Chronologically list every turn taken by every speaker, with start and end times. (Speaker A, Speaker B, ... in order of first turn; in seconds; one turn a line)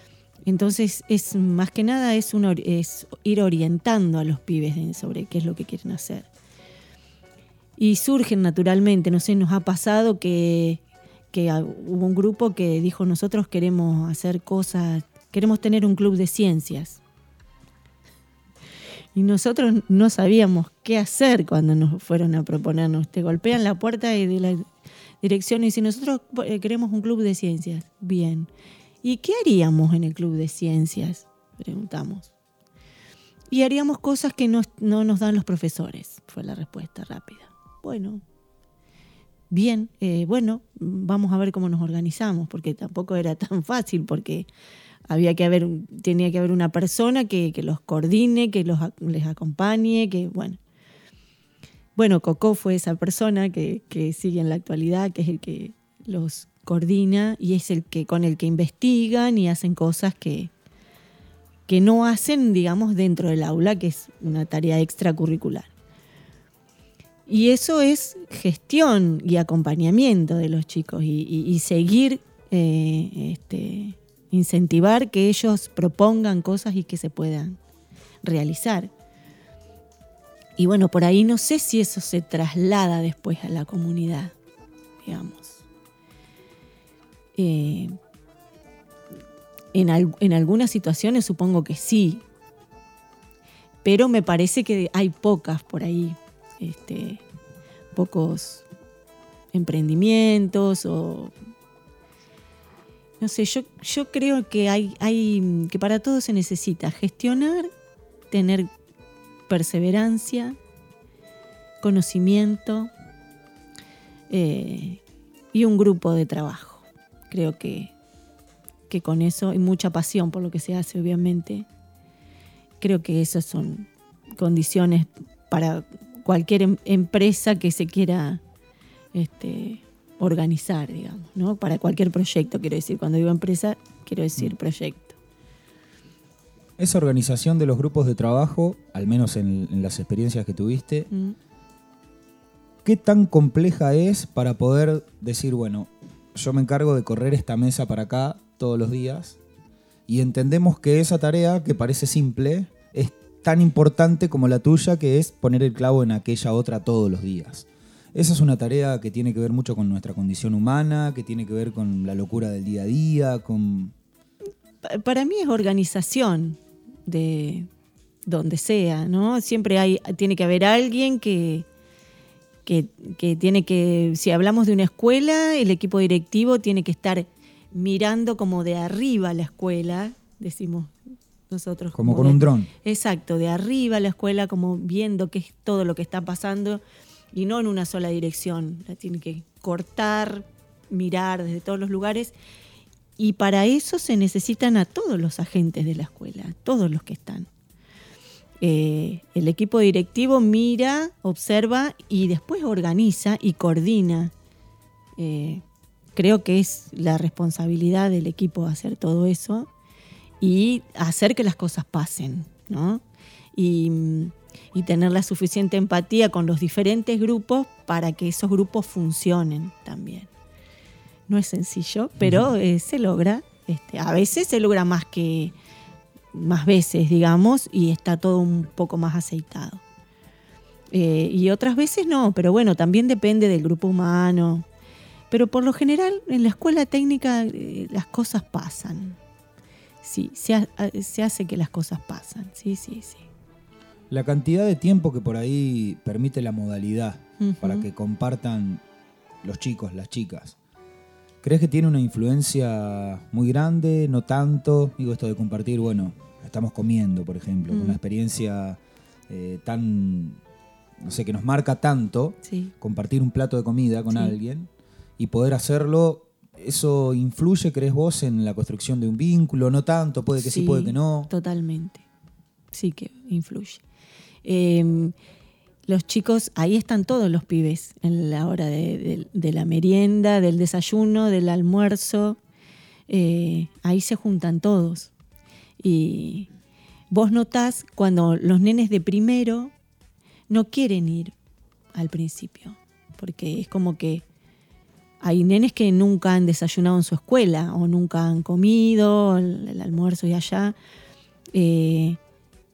Speaker A: 0.5-6.3
Speaker A: 7.8-17.0
Speaker A: 19.1-24.7
Speaker A: 25.2-28.5
Speaker A: 29.0-32.3
Speaker A: 33.5-38.2
Speaker A: 39.5-44.5
Speaker A: 45.1-50.6
Speaker A: 52.0-60.5
Speaker A: 61.7-65.7
Speaker A: 67.3-77.6
Speaker A: 78.2-78.9
Speaker A: 80.6-84.3
Speaker A: 85.0-85.6
Speaker A: 87.4-88.0
Speaker A: 89.7-92.2
Speaker A: 93.8-97.2
Speaker A: 97.9-98.7
Speaker A: 99.5-101.3
Speaker A: 103.2-107.7
Speaker A: 108.3-108.7
Speaker A: 109.5-110.6
Speaker A: 111.8-112.9
Speaker A: 114.3-115.0
Speaker A: 115.5-117.9
Speaker A: 118.9-121.7
Speaker A: 122.8-128.4
Speaker A: 129.1-135.2
Speaker B: 136.8-141.1
Speaker B: 142.8-149.4
Speaker B: 150.1-163.9
Speaker A: 164.8-167.7
Speaker A: 168.3-171.7
Speaker A: 172.7-180.9
Speaker A: 181.5-186.8
Speaker B: 181.9-182.7
Speaker A: 187.3-192.3
Speaker A: 193.2-197.5
Speaker A: 198.6-204.3
Speaker A: 205.2-205.6
Speaker A: 206.2-209.7
Speaker A: 210.4-213.0
Speaker A: 213.6-220.3
Speaker A: 221.3-225.5
Speaker B: 222.2-222.5
Speaker A: 226.3-229.8
Speaker A: 230.9-234.7
Speaker A: 235.3-239.2
Speaker A: 240.0-243.2
Speaker B: 244.1-248.8
Speaker A: 247.4-247.9
Speaker B: 249.4-250.6
Speaker B: 251.4-260.4
Speaker A: 257.7-258.0
Speaker B: 261.0-271.3
Speaker A: 262.4-262.7
Speaker A: 270.4-272.0
Speaker A: 272.7-273.8
Speaker A: 274.4-275.1
Speaker A: 275.9-282.4
Speaker A: 283.1-285.1
Speaker A: 285.8-286.5
Speaker A: 287.1-289.7
Speaker A: 290.5-291.3
Speaker A: 291.9-294.2
Speaker A: 295.2-300.8
Speaker A: 301.5-302.2